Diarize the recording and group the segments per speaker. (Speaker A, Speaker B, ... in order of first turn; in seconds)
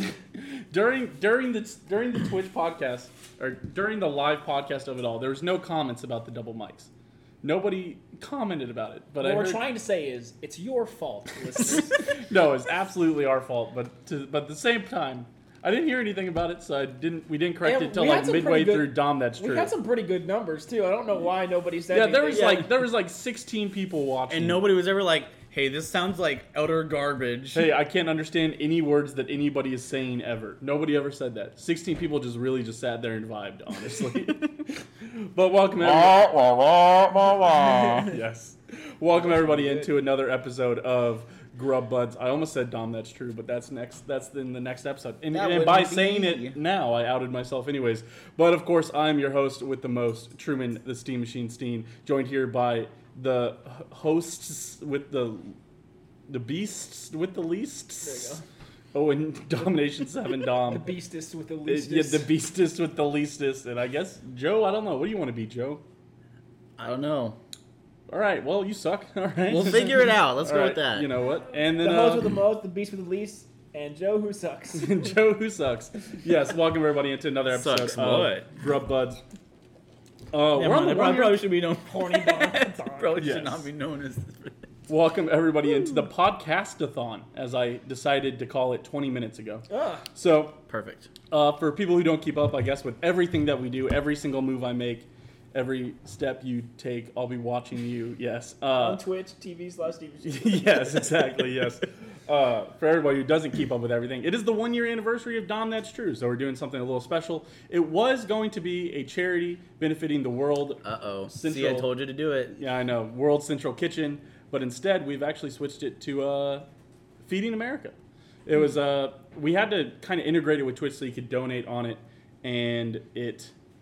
Speaker A: 0.3-6.9, 7.4-9.6, 12.0-19.7, 21.9-24.6, 27.5-55.5, 56.3-58.4, 58.9-60.9, 61.6-65.8, 68.1-72.4, 74.7-79.2, 80.3-81.5, 83.2-83.7, 84.9-90.6, 91.3-99.0, 100.2-111.9, 112.5-116.7, 117.2-123.5
Speaker B: 9.2-12.0, 17.6-22.6, 39.2-39.9, 58.0-58.4, 60.6-62.3, 71.8-75.2, 81.8-83.2, 89.7-90.1, 98.7-101.3
Speaker C: 22.3-22.6, 24.3-27.7, 45.3-46.6, 66.8-67.4, 69.5-71.1, 77.5-78.5, 80.5-84.7, 90.7-91.1, 110.8-112.5